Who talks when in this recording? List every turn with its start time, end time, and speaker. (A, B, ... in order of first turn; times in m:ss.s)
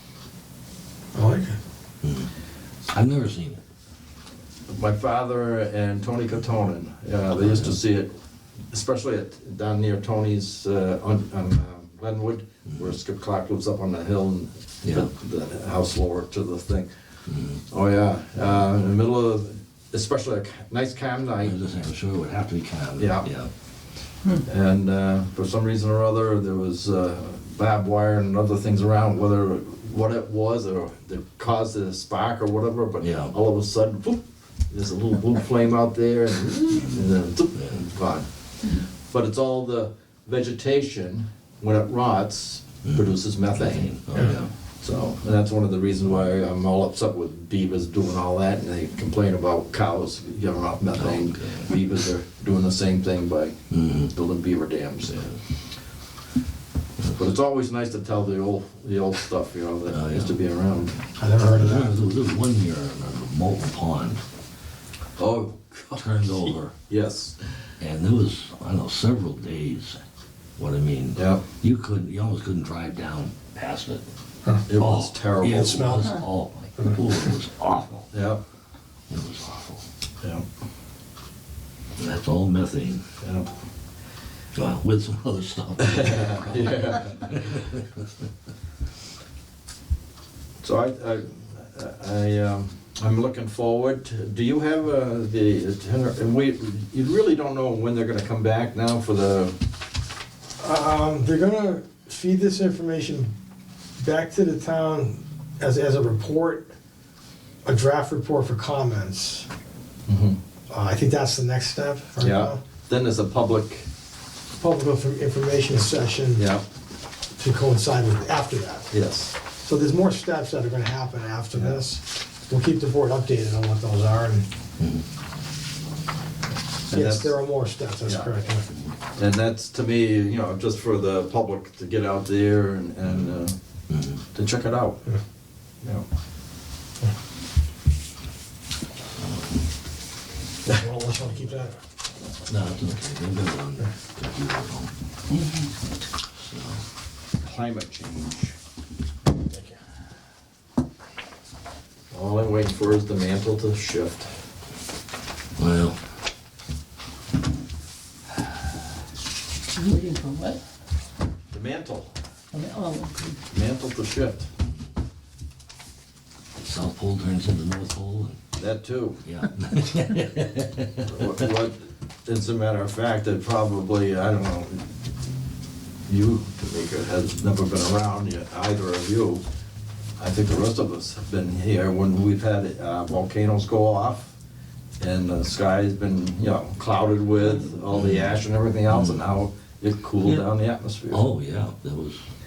0:01.1-0:01.6 A
0:02.0-0:02.3 B
0:02.9-0:03.6 B
0:04.7-0:08.1 C
0:07.5-0:07.7 B
0:08.7-0:16.9 C
0:14.8-0:15.1 B
0:17.3-0:17.6 B
0:17.7-0:21.6 C
0:21.4-0:23.5 B
0:23.0-0:23.3 C
0:24.4-0:38.3 C
0:33.0-0:33.4 B
0:36.8-0:37.0 B
0:37.6-0:37.8 B
0:39.0-0:55.4 C
0:42.8-0:44.5 B
0:44.2-0:44.4 A
0:51.0-0:51.7 B
0:53.7-0:54.1 B
0:57.1-1:01.0 C
0:59.9-1:00.4 B
1:01.2-1:02.0 A
1:01.6-1:04.2 B
1:05.2-1:07.4 C
1:06.0-1:06.8 B
1:07.8-1:10.0 B
1:10.6-1:14.0 B
1:11.2-1:11.5 C
1:14.7-1:16.0 C
1:14.8-1:18.1 B
1:15.4-1:16.1 A
1:16.8-1:17.2 A
1:18.1-1:18.4 C
1:19.1-1:19.8 B
1:22.0-1:23.0 B
1:23.2-1:23.5 C
1:24.6-1:28.0 B
1:25.9-1:27.6 C
1:30.6-1:39.6 C
1:40.6-1:43.3 A
1:44.0-1:46.7 A
1:47.6-1:49.5 A
1:50.1-1:50.4 C
1:50.7-1:52.6 A
1:52.2-1:53.9 C
1:54.6-1:56.4 A
1:56.4-1:56.6 C
1:57.4-1:58.9 A
1:58.9-1:59.4 C
1:59.6-2:04.5 A
2:01.6-2:01.8 C
2:04.8-2:05.0 B
2:06.9-2:07.4 C
2:06.9-2:08.7 A
2:08.0-2:08.3 C
2:09.2-2:13.6 C
2:13.9-2:14.2 B
2:14.3-2:15.0 C
2:20.7-2:21.8 A
2:22.5-2:24.9 B
2:25.3-2:25.9 D
2:26.4-2:26.8 B
2:27.4-2:28.6 C
2:32.1-2:34.3 C
2:35.6-2:36.0 B
2:39.7-2:40.6 D
2:41.5-2:42.1 C
2:42.5-2:43.4 D
2:43.5-2:44.5 C
2:46.6-2:48.4 B
2:48.6-2:49.2 C
2:49.2-2:51.5 B
2:51.1-2:54.8 C
2:56.1-2:59.4 C
3:00.2-3:04.3 C
3:05.0-3:11.2 C
3:07.9-3:09.2 B
3:11.1-3:12.2 B